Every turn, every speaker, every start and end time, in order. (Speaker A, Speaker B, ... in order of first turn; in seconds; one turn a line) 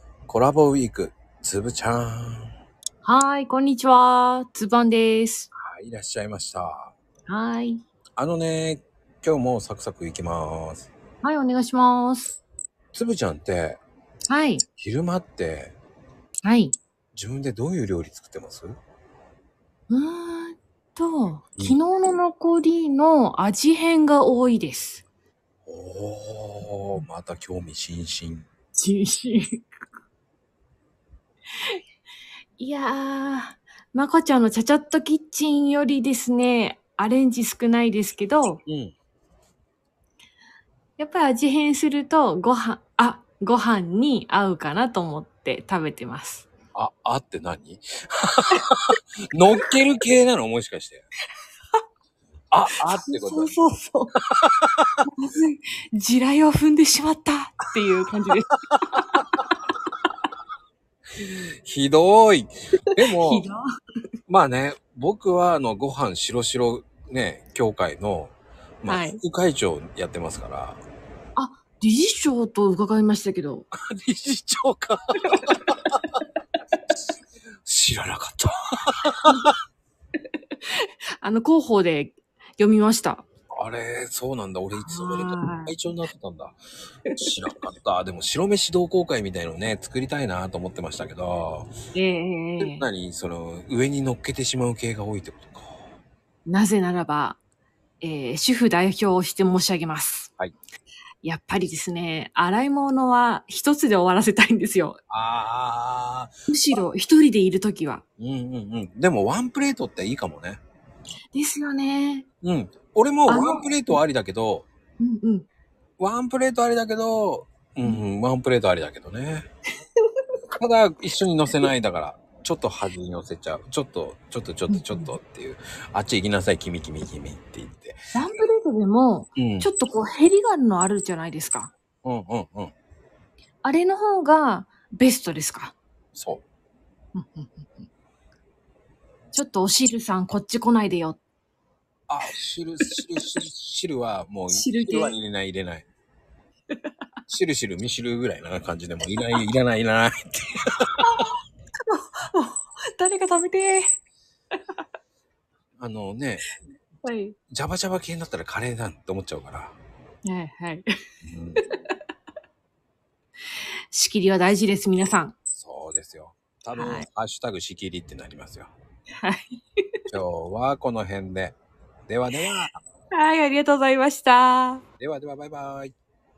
Speaker A: 0.3-2.5
Speaker B: 3.0-5.5
Speaker A: 5.5-6.9
Speaker B: 7.3-7.8
Speaker A: 8.2-10.9
Speaker B: 11.2-12.4
Speaker A: 12.9-13.8
Speaker B: 14.3-14.6
Speaker A: 14.8-15.7
Speaker B: 16.4-16.8
Speaker A: 17.1-18.8
Speaker B: 19.9-25.0
Speaker A: 25.6-28.5
Speaker B: 28.7-29.6
Speaker B: 32.6-38.6
Speaker A: 38.6-38.9
Speaker B: 41.0-46.5
Speaker A: 46.7-51.0
Speaker A: 52.5-53.5
Speaker B: 52.8-54.1
Speaker B: 55.0-59.2
Speaker A: 61.6-63.5
Speaker B: 62.9-63.6
Speaker A: 64.3-70.8
Speaker B: 68.9-69.2
Speaker B: 71.3-73.7
Speaker A: 73.7-75.8
Speaker A: 77.6-79.5
Speaker B: 80.8-83.2
Speaker A: 83.5-86.6
Speaker B: 84.8-85.7
Speaker A: 87.2-91.7
Speaker B: 91.9-92.9
Speaker A: 92.6-95.8
Speaker B: 96.5-97.4
Speaker B: 98.0-100.3
Speaker B: 101.2-105.0
Speaker A: 105.1-106.3
Speaker B: 106.5-108.0
Speaker A: 108.2-110.6
Speaker B: 111.3-112.2
Speaker A: 112.4-114.7
Speaker B: 113.3-113.7
Speaker B: 115.0-115.5
Speaker A: 116.0-119.5
Speaker A: 120.6-128.0
Speaker B: 124.7-125.1
Speaker B: 128.1-131.7
Speaker A: 129.4-129.7
Speaker A: 132.0-132.7
Speaker B: 133.6-135.8
Speaker A: 136.1-136.4
Speaker B: 137.1-137.8
Speaker B: 139.3-141.2
Speaker A: 142.1-145.9
Speaker B: 144.5-145.2
Speaker A: 147.3-150.8
Speaker B: 151.9-153.9
Speaker A: 155.8-156.4
Speaker B: 157.0-157.4
Speaker A: 157.5-159.7
Speaker B: 160.2-160.9
Speaker A: 161.2-161.6
Speaker B: 163.9-165.3
Speaker A: 165.5-168.7
Speaker B: 166.7-167.1
Speaker B: 169.2-169.8
Speaker A: 170.1-171.6
Speaker A: 172.1-172.8
Speaker B: 173.1-174.8
Speaker A: 175.0-175.9